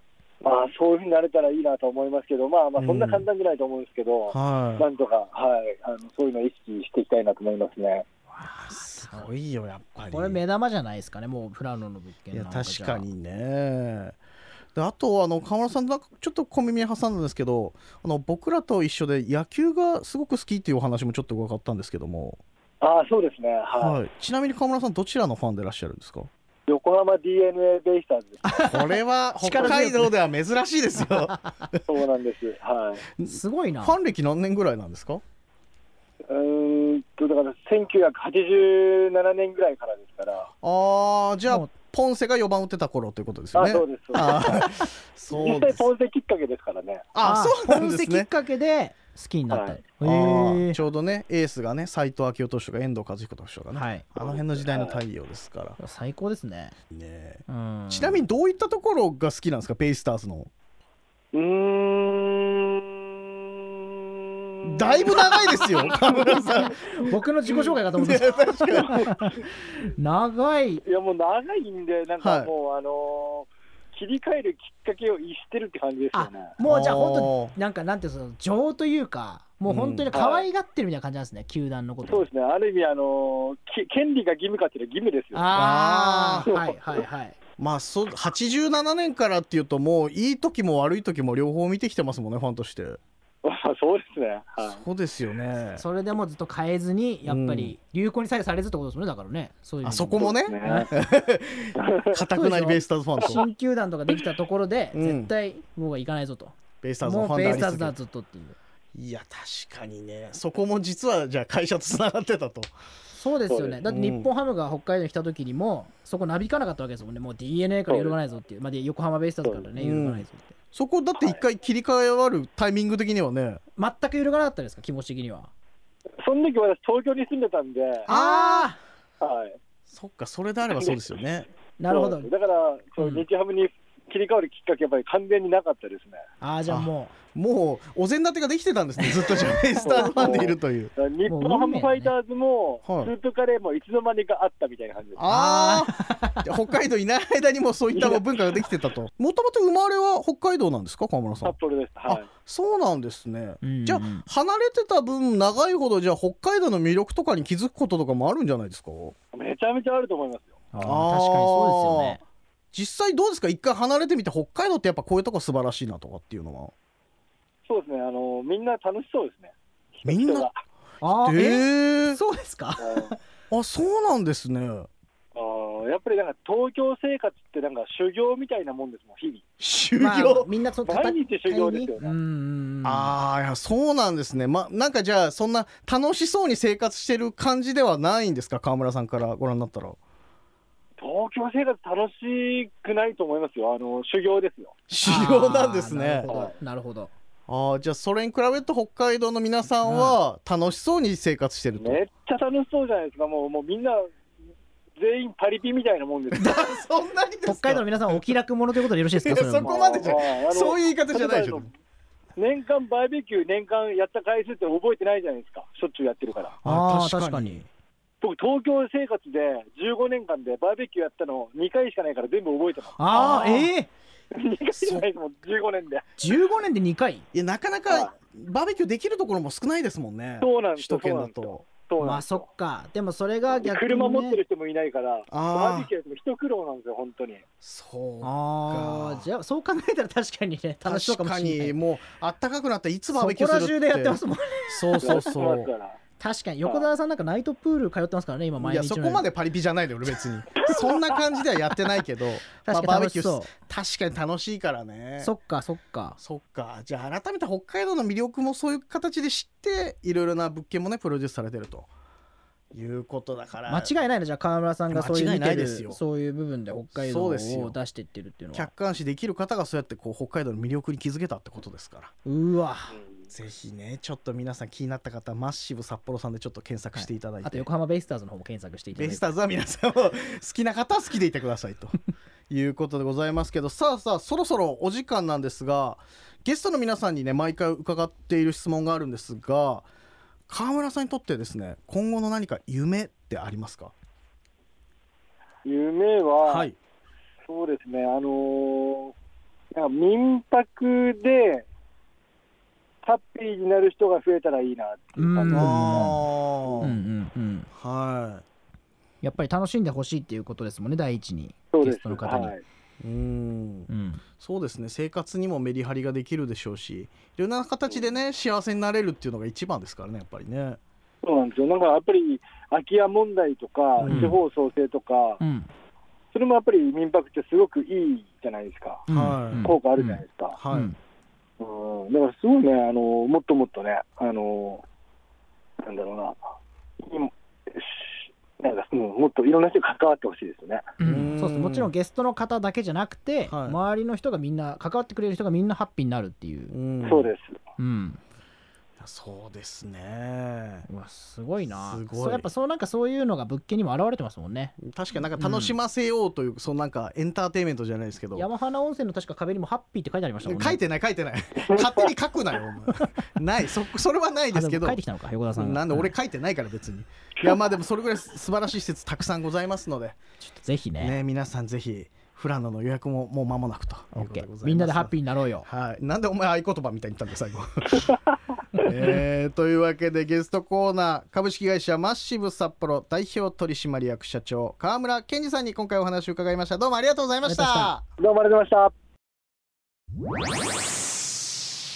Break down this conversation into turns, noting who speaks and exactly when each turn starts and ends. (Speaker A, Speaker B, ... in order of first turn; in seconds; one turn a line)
Speaker A: 0.4-8.1
Speaker B: 2.8-3.2
Speaker B: 4.3-4.9
Speaker C: 8.3-9.3
Speaker B: 8.4-10.4
Speaker C: 10.1-13.1
Speaker B: 12.3-14.2
Speaker B: 14.8-22.4
Speaker A: 22.8-24.0
Speaker B: 23.8-26.3
Speaker A: 26.7-28.6
Speaker C: 28.4-30.1
Speaker B: 28.6-31.8
Speaker A: 31.9-33.0
Speaker B: 33.2-35.2
Speaker C: 33.2-34.0
Speaker A: 36.3-40.5
Speaker B: 40.6-45.9
Speaker A: 43.5-44.7
Speaker A: 45.3-47.1
Speaker B: 47.1-48.3
Speaker C: 47.2-50.8
Speaker A: 49.5-49.8
Speaker B: 50.0-55.8
Speaker C: 53.7-54.1
Speaker A: 54.2-55.0
Speaker C: 55.8-56.8
Speaker B: 56.9-60.5
Speaker C: 57.5-58.2
Speaker A: 61.3-66.1
Speaker B: 64.6-69.2
Speaker C: 66.0-70.8
Speaker A: 68.7-69.1
Speaker A: 70.8-76.5
Speaker B: 72.2-72.5
Speaker C: 76.1-82.3
Speaker B: 76.6-77.5
Speaker B: 79.7-80.1
Speaker A: 80.1-80.5
Speaker A: 82.1-85.5
Speaker C: 85.3-87.4
Speaker B: 85.5-86.5
Speaker A: 86.5-86.8
Speaker B: 87.6-93.0
Speaker A: 93.4-94.8
Speaker B: 94.6-95.8
Speaker C: 95.8-100.9
Speaker B: 97.2-97.8
Speaker B: 99.8-103.4
Speaker A: 100.2-100.9
Speaker A: 101.8-102.2
Speaker C: 102.3-108.6
Speaker B: 104.9-105.3
Speaker B: 106.8-107.9
Speaker B: 108.9-112.7
Speaker C: 113.1-120.5
Speaker A: 113.5-113.8
Speaker B: 113.9-114.3
Speaker A: 117.9-118.2
Speaker B: 119.8-123.6
Speaker C: 123.8-125.5
Speaker A: 126.2-128.1
Speaker B: 128.1-128.7
Speaker C: 128.1-128.8
Speaker A: 129.2-129.6
Speaker B: 129.9-131.5
Speaker A: 130.7-131.0
Speaker C: 131.8-132.3
Speaker A: 131.9-136.2
Speaker C: 133.0-133.2
Speaker C: 136.4-137.1
Speaker B: 136.7-140.9
Speaker A: 139.8-145.2
Speaker C: 141.3-142.1
Speaker B: 142.9-143.1
Speaker B: 145.2-151.6
Speaker C: 145.3-146.5
Speaker A: 147.9-148.4
Speaker A: 151.4-152.3
Speaker B: 152.1-159.2
Speaker C: 153.6-154.2
Speaker A: 159.3-160.6
Speaker C: 160.7-162.2
Speaker B: 160.8-162.2
Speaker B: 162.7-166.7
Speaker A: 167.7-170.6
Speaker B: 170.1-170.5
Speaker C: 171.0-173.2
Speaker B: 171.1-172.2
Speaker A: 172.8-173.1
Speaker B: 173.5-174.9
Speaker A: 175.3-179.4
Speaker B: 179.6-180.5
Speaker C: 180.0-183.1
Speaker A: 180.9-182.1
Speaker B: 182.8-190.0
Speaker A: 191.0-194.8
Speaker B: 194.9-196.3
Speaker C: 195.0-197.1
Speaker A: 196.3-196.6
Speaker B: 197.5-202.0
Speaker C: 199.8-200.2
Speaker A: 201.8-204.1
Speaker A: 205.0-206.6
Speaker B: 206.3-208.3
Speaker C: 207.5-209.7
Speaker B: 209.1-211.7
Speaker A: 209.6-211.7
Speaker A: 212.4-216.6
Speaker B: 216.6-217.7
Speaker C: 216.6-217.6
Speaker A: 218.2-223.5
Speaker C: 223.0-223.9
Speaker B: 223.1-223.7
Speaker A: 224.3-226.2
Speaker B: 224.7-225.1
Speaker C: 226.2-227.2
Speaker B: 227.3-231.6
Speaker A: 227.9-228.1
Speaker A: 230.4-232.4
Speaker C: 232.0-234.4
Speaker A: 233.5-237.4
Speaker B: 235.3-235.9
Speaker B: 237.6-239.2
Speaker C: 238.2-241.8
Speaker B: 240.8-245.7
Speaker C: 243.1-245.2
Speaker A: 245.0-246.0
Speaker C: 246.2-249.2
Speaker A: 246.6-246.9
Speaker B: 248.6-255.3
Speaker A: 250.6-251.2
Speaker C: 252.6-253.5
Speaker C: 255.2-256.2
Speaker B: 256.2-261.9
Speaker B: 262.7-263.9
Speaker C: 263.7-268.7
Speaker B: 264.9-266.0
Speaker B: 266.9-267.8
Speaker B: 268.5-272.1
Speaker C: 272.2-273.0
Speaker B: 273.3-277.7
Speaker C: 276.9-279.2
Speaker B: 278.9-281.9
Speaker B: 282.5-289.9
Speaker B: 290.5-293.9
Speaker A: 295.6-296.7
Speaker B: 296.4-296.8
Speaker A: 297.5-299.1
Speaker A: 299.7-301.7
Speaker A: 303.0-306.8
Speaker C: 305.1-306.2
Speaker B: 305.5-306.9
Speaker C: 306.8-307.7
Speaker B: 307.7-308.4
Speaker C: 309.2-312.5
Speaker A: 311.7-312.6
Speaker B: 313.0-320.8
Speaker C: 313.9-314.2
Speaker A: 321.2-325.4
Speaker B: 324.0-324.4
Speaker C: 324.1-324.4
Speaker C: 325.4-325.7
Speaker A: 326.3-329.1
Speaker C: 329.1-331.0
Speaker B: 329.1-329.8
Speaker A: 329.6-330.6
Speaker B: 330.6-330.9
Speaker A: 331.6-334.8
Speaker A: 335.8-336.4
Speaker A: 337.0-340.9
Speaker C: 341.0-346.7
Speaker B: 341.0-341.9
Speaker B: 343.5-343.8
Speaker B: 346.7-347.3
Speaker A: 347.0-347.6
Speaker C: 347.8-348.2
Speaker B: 349.0-350.9
Speaker C: 350.9-354.8
Speaker B: 351.7-352.5
Speaker B: 354.8-358.5
Speaker C: 355.4-355.8
Speaker C: 358.4-360.8
Speaker B: 360.4-365.0
Speaker A: 361.6-362.1
Speaker C: 364.5-366.1
Speaker B: 365.6-370.2
Speaker C: 370.4-371.1
Speaker B: 371.0-378.1
Speaker C: 374.1-375.7
Speaker B: 378.8-388.0
Speaker C: 387.4-387.9
Speaker A: 388.2-388.9